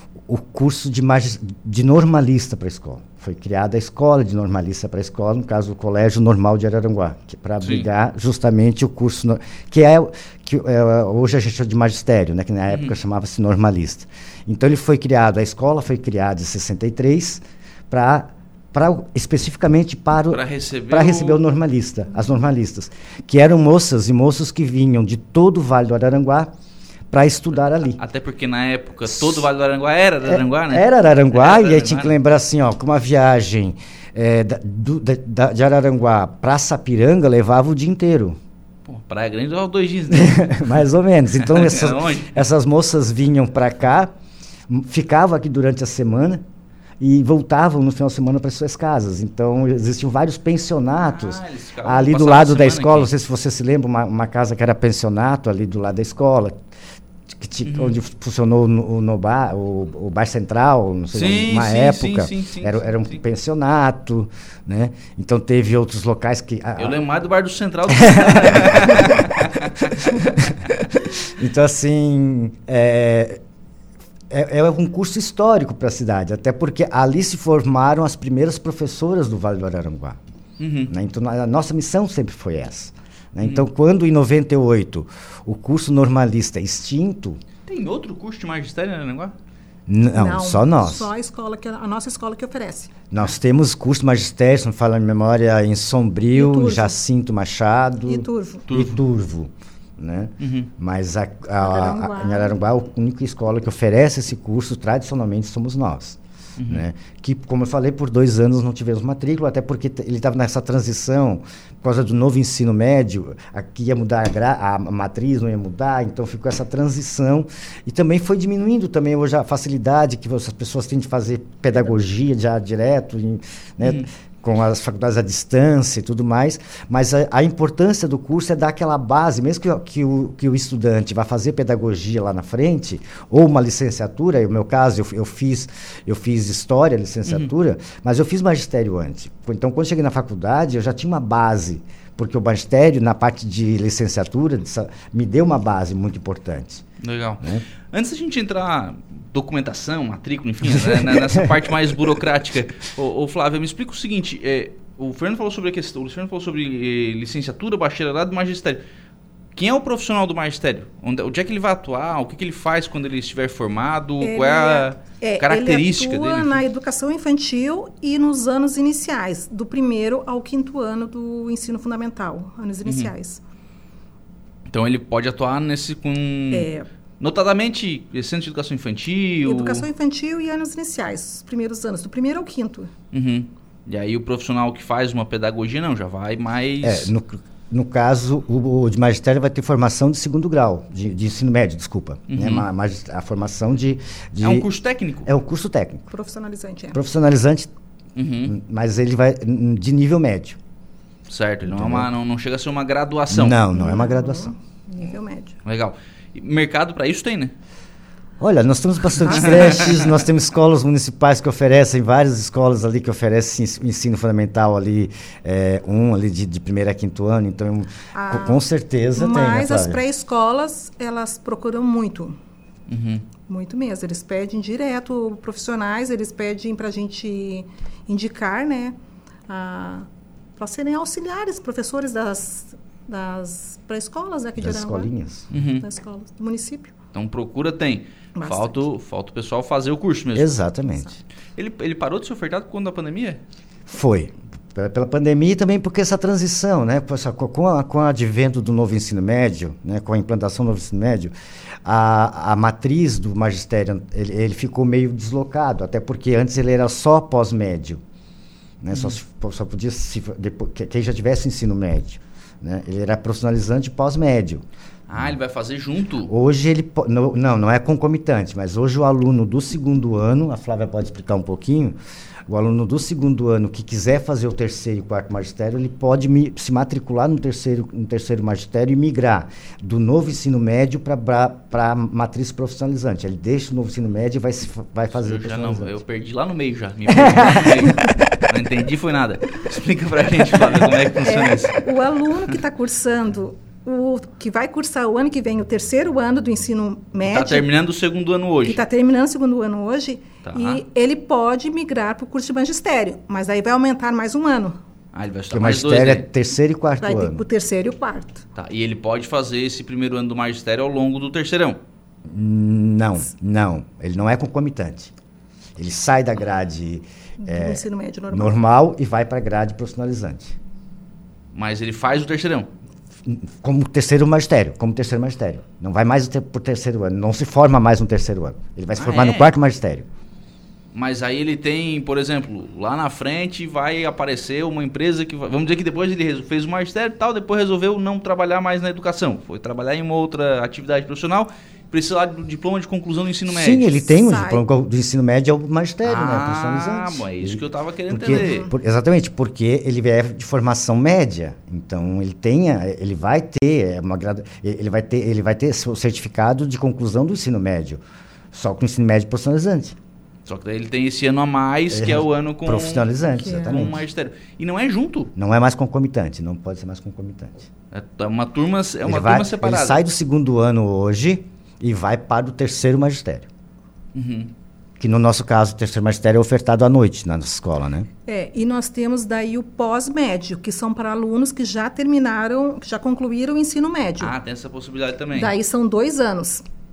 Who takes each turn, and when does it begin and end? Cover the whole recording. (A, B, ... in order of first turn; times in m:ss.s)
0:00.3-0:26.5 A
0:07.6-0:07.9 B
0:12.7-0:13.0 B
0:20.3-0:21.4 B
0:27.1-0:28.0 A
0:28.0-0:32.1 B
0:29.1-0:29.4 A
0:30.2-0:38.4 A
0:38.8-0:40.8 B
0:40.1-0:44.1 A
0:41.3-0:42.4 B
0:44.7-0:46.4 A
0:47.0-0:56.6 A
0:51.0-0:53.1 B
0:57.3-1:07.0 A
0:57.6-0:58.0 B
1:01.1-1:03.2 B
1:06.8-1:10.8 B
1:07.9-1:09.1 A
1:11.2-1:13.4 A
1:14.3-1:20.2 A
1:20.6-1:20.9 B
1:20.9-1:27.4 A
1:23.4-1:23.7 B
1:27.6-1:29.3 B
1:29.9-1:31.1 A
1:30.1-1:33.0 C
1:33.1-2:26.8 A
1:36.3-1:36.9 C
1:38.0-1:38.6 C
1:38.7-1:39.0 B
1:40.4-1:40.7 B
1:41.6-1:42.6 C
1:46.6-1:46.8 B
2:03.8-2:04.1 B
2:17.2-2:17.5 B
2:27.0-2:38.8 B
2:30.6-2:31.6 A
2:39.6-2:46.6 B
2:44.2-2:53.4 C
2:52.8-2:53.1 B
2:54.7-2:59.9 B
2:56.5-2:56.9 C
2:59.4-3:02.9 C
3:03.1-3:07.1 B
3:06.8-3:14.7 A
3:12.3-3:12.7 B
3:14.4-3:15.3 B
3:15.2-3:16.0 A
3:16.1-3:17.0 C
3:16.9-3:17.7 A
3:18.2-3:18.6 B
3:18.5-3:20.6 A
3:21.3-3:23.6 B
3:21.6-3:22.1 A
3:23.3-3:24.5 A
3:23.7-3:25.5 C
3:25.6-3:27.5 B
3:28.4-3:40.0 A
3:29.2-3:30.0 B
3:29.2-3:30.0 C
3:38.1-3:38.6 C
3:39.1-3:42.4 C
3:42.9-3:43.2 B
3:43.5-3:49.0 C
3:49.5-3:56.9 C
3:54.6-3:55.5 A
3:55.5-3:55.8 B
3:57.1-4:00.5 B
3:58.4-3:58.8 C
4:00.3-4:01.1 A
4:01.6-4:03.4 B
4:03.9-4:11.3 A
4:11.8-4:18.0 A
4:18.8-4:24.6 A
4:25.1-4:26.3 B
4:26.3-4:45.9 A
4:45.1-4:51.7 B
4:47.1-4:47.8 A
4:51.2-4:57.7 C
4:57.2-4:58.8 B
4:58.7-5:04.8 C
5:00.4-5:00.8 B
5:05.1-5:06.3 B
5:05.5-5:07.4 A
5:07.0-5:08.4 C
5:08.5-5:11.8 B
5:12.3-5:15.1 A
5:15.8-5:20.6 A
5:17.4-5:18.6 C
5:21.5-5:22.7 B
5:23.2-5:30.1 A
5:29.0-5:29.5 B
5:30.9-5:43.9 B
5:43.5-5:58.0 A
5:44.1-5:44.6 C
5:46.0-5:48.7 B
5:48.3-5:48.7 C
5:58.5-6:00.0 A
6:00.5-6:05.3 B
6:01.9-6:04.0 A
6:03.4-6:03.7 C
6:05.3-6:07.7 A
6:07.9-6:10.0 B
6:09.0-6:13.5 A
6:14.1-6:14.5 B
6:15.0-6:18.1 A
6:18.3-6:24.3 C
6:24.2-6:25.5 B
6:25.3-6:26.6 C